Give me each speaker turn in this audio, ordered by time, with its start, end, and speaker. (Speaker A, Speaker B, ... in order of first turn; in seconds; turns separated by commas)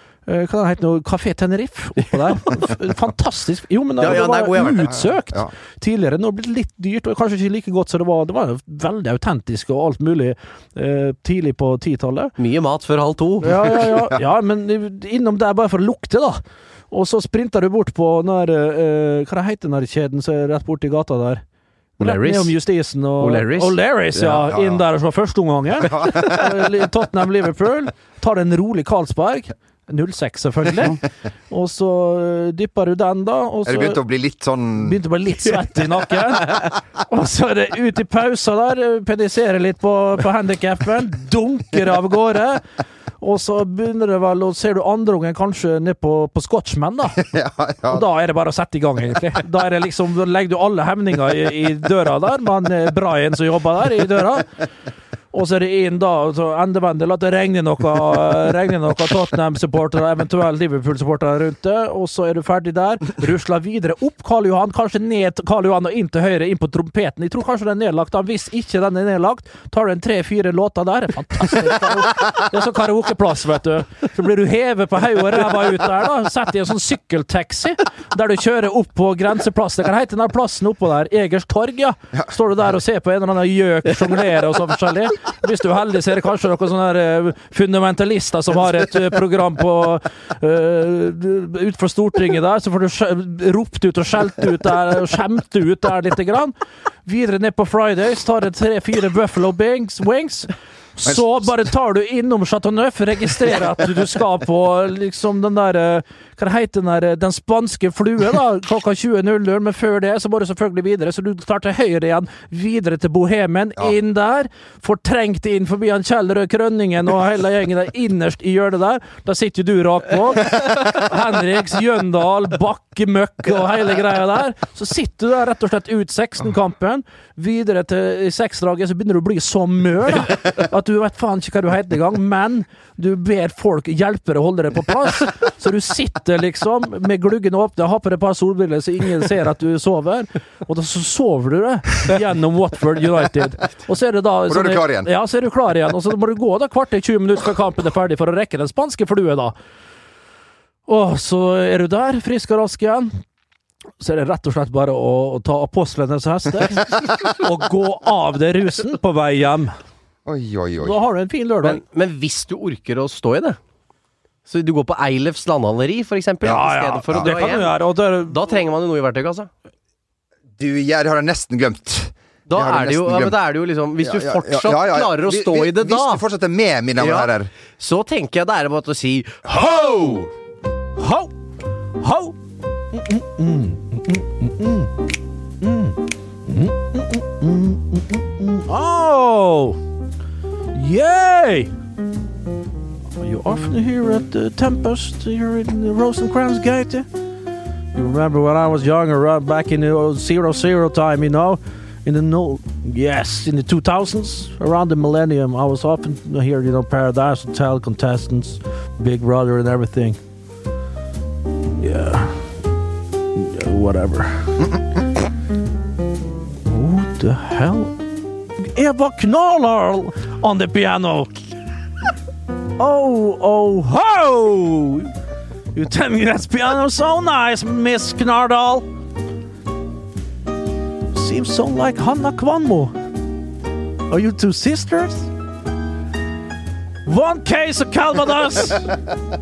Speaker A: 0.3-12.3, Speaker B: 4.0-5.0, Speaker C: 4.7-5.5, Speaker B: 12.4-13.8, Speaker A: 13.4-21.4, Speaker C: 13.7-14.2, Speaker A: 22.0-34.0, Speaker B: 22.0-22.6, Speaker B: 23.2-24.4, Speaker C: 24.4-24.8, Speaker C: 25.8-26.5, Speaker C: 33.6-35.0, Speaker A: 34.8-42.6, Speaker A: 43.2-47.2, Speaker C: 47.2-48.0, Speaker A: 47.9-54.6, Speaker A: 55.3-96.5, Speaker A: 97.0-149.6, Speaker C: 144.5-145.1, Speaker A: 150.9-153.1, Speaker A: 154.0-159.7, Speaker C: 160.2-161.0, Speaker A: 160.8-161.8, Speaker B: 161.6-163.6, Speaker B: 164.5-167.7, Speaker A: 166.4-168.4, Speaker C: 167.1-167.6, Speaker B: 168.3-169.5, Speaker C: 170.6-173.4, Speaker B: 172.5-176.2, Speaker C: 174.0-177.5, Speaker B: 177.0-180.3, Speaker C: 179.5-179.8, Speaker A: 181.0-181.3, Speaker A: 182.0-182.4, Speaker A: 182.9-185.0, Speaker A: 185.6-189.8, Speaker A: 190.7-191.7, Speaker A: 193.2-197.1, Speaker A: 197.9-210.2, Speaker A: 211.8-212.4, Speaker A: 213.3-214.7, Speaker A: 216.7-218.0, Speaker A: 218.6-221.4, Speaker A: 222.8-225.1, Speaker A: 225.7-228.9, Speaker A: 231.1-232.9, Speaker A: 234.1-235.3, Speaker A: 237.0-238.9